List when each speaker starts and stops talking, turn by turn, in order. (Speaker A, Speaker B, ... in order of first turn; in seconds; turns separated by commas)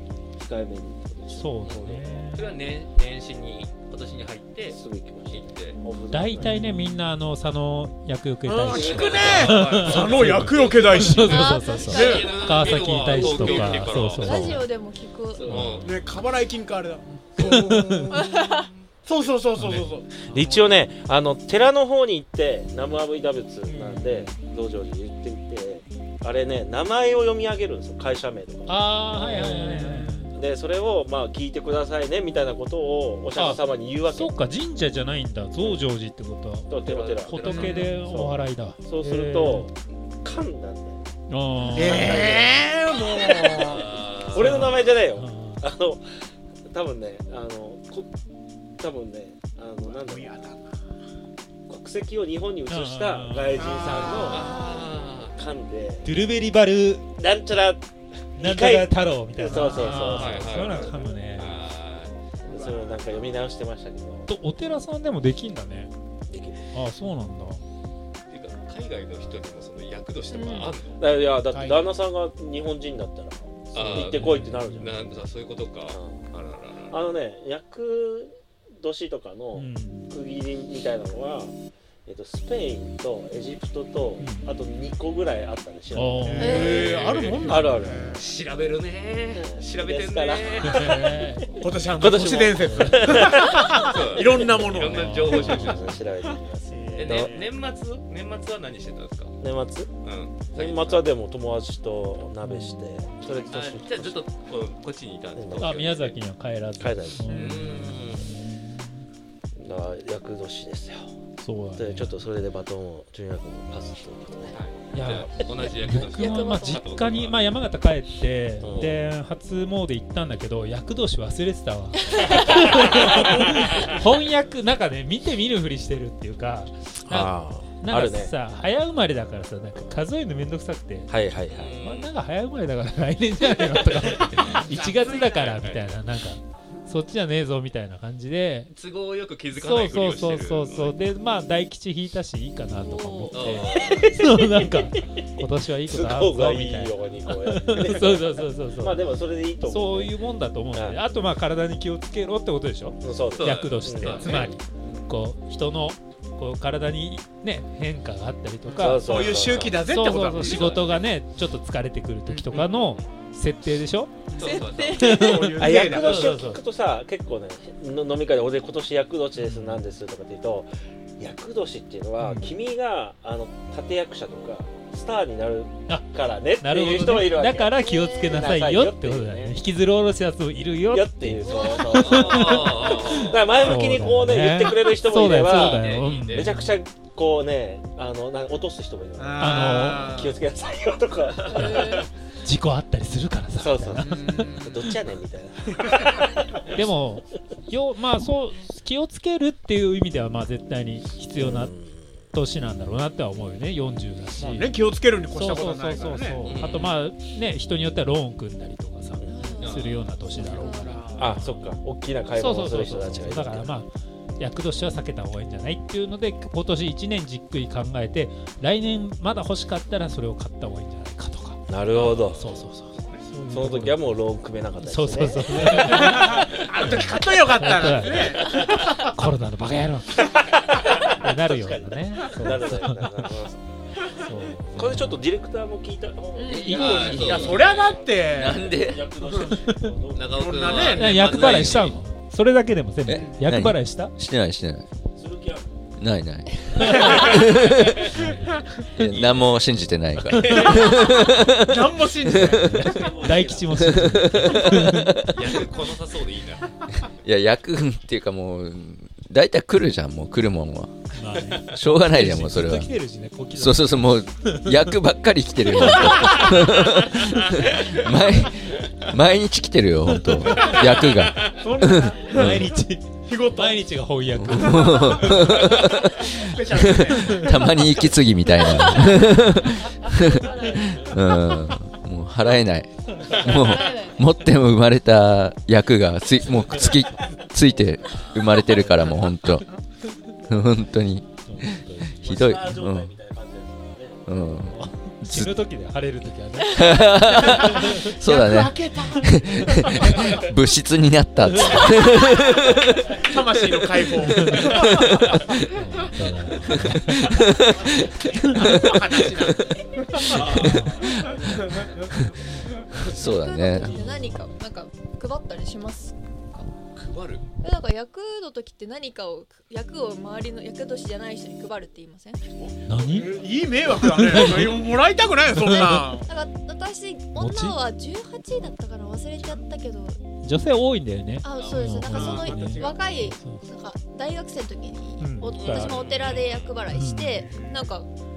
Speaker A: 0.3-2.0, Speaker B: 1.3-2.6, Speaker C: 1.6-5.8, Speaker A: 4.7-6.5, Speaker D: 5.8-6.0, Speaker B: 6.1-14.6, Speaker E: 8.4-12.3, Speaker C: 8.7-14.6, Speaker A: 8.7-9.8, Speaker D: 11.2-12.6, Speaker D: 13.1-15.6, Speaker C: 15.3-16.1, Speaker B: 15.5-16.1, Speaker E: 15.8-18.4, Speaker B: 17.8-18.1, Speaker D: 18.1-18.7, Speaker C: 18.1-18.9, Speaker E: 19.0-20.8, Speaker B: 19.6-20.4, Speaker A: 20.3-34.3, Speaker B: 23.6-24.3, Speaker B: 28.7-30.4, Speaker C: 29.1-29.5, Speaker E: 29.3-30.3, Speaker B: 33.4-39.7, Speaker A: 35.6-35.8, Speaker A: 36.7-41.0, Speaker C: 36.8-38.0, Speaker E: 37.5-37.9, Speaker B: 41.3-42.4, Speaker E: 41.7-43.9, Speaker A: 41.7-46.1, Speaker C: 43.6-45.0, Speaker B: 44.3-45.7, Speaker A: 46.7-48.1, Speaker A: 48.8-50.4, Speaker E: 49.8-50.7, Speaker A: 51.7-54.5, Speaker B: 52.7-54.5, Speaker E: 53.5-54.9, Speaker C: 54.3-55.3, Speaker A: 55.3-56.1, Speaker B: 56.0-57.0, Speaker A: 57.1-60.8, Speaker B: 58.4-61.6, Speaker E: 59.4-59.9, Speaker C: 60.0-62.1, Speaker E: 62.5-63.0, Speaker A: 62.5-64.3, Speaker B: 64.2-65.9, Speaker A: 66.3-66.7, Speaker B: 66.7-67.6, Speaker C: 68.3-71.0, Speaker D: 70.3-70.8, Speaker A: 71.0-75.0, Speaker E: 71.5-71.9, Speaker C: 73.7-77.0, Speaker B: 73.8-75.2, Speaker A: 75.9-76.2, Speaker A: 76.9-81.5, Speaker B: 79.5-80.1, Speaker A: 82.0-88.2, Speaker B: 84.2-84.5, Speaker B: 85.9-88.0, Speaker E: 86.2-88.2, Speaker D: 86.4-86.8, Speaker C: 86.5-87.5, Speaker C: 88.2-91.1, Speaker A: 89.3-97.3, Speaker B: 90.6-91.5, Speaker E: 91.6-97.5, Speaker B: 92.6-93.4, Speaker C: 93.7-96.0, Speaker B: 94.6-95.8, Speaker C: 96.9-99.4, Speaker A: 99.4-99.9, Speaker C: 100.0-101.1, Speaker A: 100.5-104.2, Speaker B: 102.4-103.1, Speaker C: 103.3-106.1, Speaker A: 105.3-106.0, Speaker B: 105.6-109.0, Speaker A: 106.8-107.4, Speaker E: 107.2-107.8, Speaker C: 107.3-108.3, Speaker A: 109.5-111.1, Speaker B: 111.4-112.2, Speaker A: 111.8-114.6, Speaker C: 114.5-117.4, Speaker B: 114.9-131.2, Speaker D: 115.7-116.9, Speaker A: 118.6-119.0, Speaker D: 122.2-122.6, Speaker A: 123.3-123.8, Speaker A: 127.0-128.3, Speaker A: 131.1-131.8, Speaker C: 131.5-132.1, Speaker B: 131.8-138.7, Speaker E: 134.7-135.6, Speaker C: 135.6-135.9, Speaker C: 138.7-140.9, Speaker B: 139.5-149.0, Speaker D: 142.8-144.1, Speaker C: 143.3-143.8, Speaker A: 143.3-150.1, Speaker B: 149.6-159.1, Speaker A: 150.7-151.0, Speaker A: 153.0-154.5, Speaker C: 153.3-154.5, Speaker E: 158.7-160.9, Speaker A: 158.8-159.8, Speaker B: 159.8-164.3, Speaker C: 160.3-161.1, Speaker C: 162.5-163.0, Speaker E: 164.3-166.3, Speaker C: 164.3-165.4, Speaker D: 164.4-165.6, Speaker B: 164.9-166.6, Speaker A: 165.5-179.5, Speaker C: 165.9-166.3, Speaker B: 169.3-169.8, Speaker B: 172.2-172.6, Speaker B: 176.6-186.7, Speaker D: 177.8-178.5, Speaker A: 180.9-192.1, Speaker D: 181.4-181.9, Speaker C: 181.9-183.8, Speaker C: 185.3-186.6, Speaker E: 189.2-190.4, Speaker B: 189.4-190.2, Speaker D: 191.5-192.1, Speaker B: 191.5-194.9, Speaker A: 193.5-196.8, Speaker E: 194.0-194.9, Speaker E: 195.8-196.2, Speaker B: 196.7-201.7, Speaker A: 201.3-202.1, Speaker B: 202.3-204.7, Speaker E: 204.4-206.5, Speaker B: 205.3-211.8, Speaker C: 206.4-207.0, Speaker A: 209.2-209.6, Speaker D: 209.2-211.2, Speaker C: 209.6-210.2, Speaker E: 210.4-211.3, Speaker A: 211.1-213.8, Speaker B: 212.3-224.2, Speaker A: 221.7-222.6, Speaker C: 221.9-222.4, Speaker A: 223.5-226.7, Speaker B: 224.8-230.3, Speaker E: 225.8-229.1, Speaker A: 228.2-228.8, Speaker A: 230.2-233.6, Speaker B: 231.0-233.2, Speaker B: 234.1-235.2, Speaker A: 234.7-241.8, Speaker D: 236.3-236.8, Speaker C: 236.5-237.9, Speaker B: 236.7-237.5, Speaker E: 236.7-239.6, Speaker F: 238.3-239.1, Speaker C: 240.1-242.0, Speaker E: 240.2-241.8, Speaker B: 240.9-244.1, Speaker F: 243.0-244.8, Speaker E: 243.1-243.4, Speaker A: 245.1-245.8, Speaker F: 246.0-248.1, Speaker B: 246.7-247.3, Speaker E: 246.8-247.4, Speaker A: 247.2-248.0, Speaker B: 247.9-248.6, Speaker F: 248.9-252.8, Speaker C: 249.0-249.6, Speaker B: 250.2-250.7, Speaker A: 250.3-250.9, Speaker E: 250.6-253.1, Speaker B: 252.3-255.1, Speaker A: 252.8-253.7, Speaker F: 253.7-255.6, Speaker C: 255.3-256.7, Speaker F: 257.0-260.9, Speaker B: 261.2-265.0, Speaker F: 261.7-262.9, Speaker F: 263.5-272.7, Speaker B: 266.0-266.5, Speaker B: 270.1-270.8, Speaker E: 270.5-273.9, Speaker C: 271.0-271.6, Speaker B: 272.3-275.4, Speaker F: 274.3-289.8, Speaker E: 274.6-277.8, Speaker B: 277.2-277.5, Speaker D: 278.5-279.1, Speaker D: 280.1-281.7, Speaker D: 283.5-284.2, Speaker B: 286.5-286.9, Speaker B: 289.2-289.5, Speaker F: 290.5-293.1, Speaker B: 291.4-292.5, Speaker A: 292.2-294.9, Speaker F: 294.3-295.5, Speaker B: 294.7-298.1, Speaker F: 296.7-303.1, Speaker E: 297.6-300.3, Speaker B: 301.4-301.8, Speaker E: 303.2-306.1, Speaker B: 304.3-304.7, Speaker F: 304.5-305.5, Speaker B: 305.7-307.2, Speaker F: 306.7-309.7, Speaker E: 307.8-310.3, Speaker A: 310.2-311.9, Speaker B: 310.2-311.1, Speaker C: 310.4-310.8, Speaker F: 310.4-311.3, Speaker E: 311.6-311.9, Speaker F: 312.9-313.9, Speaker D: 313.1-316.7, Speaker B: 313.7-314.5, Speaker C: 316.9-317.5, Speaker D: 317.6-322.4, Speaker C: 322.6-323.4, Speaker B: 322.9-323.4, Speaker E: 323.0-326.3, Speaker B: 323.9-324.9, Speaker B: 325.6-326.1, Speaker D: 326.2-330.2, Speaker B: 327.4-327.8, Speaker B: 330.4-333.6, Speaker D: 331.4-338.1, Speaker C: 331.5-332.5, Speaker E: 332.0-333.1, Speaker B: 335.2-336.0, Speaker C: 335.5-336.8, Speaker B: 336.9-337.6, Speaker E: 337.4-337.9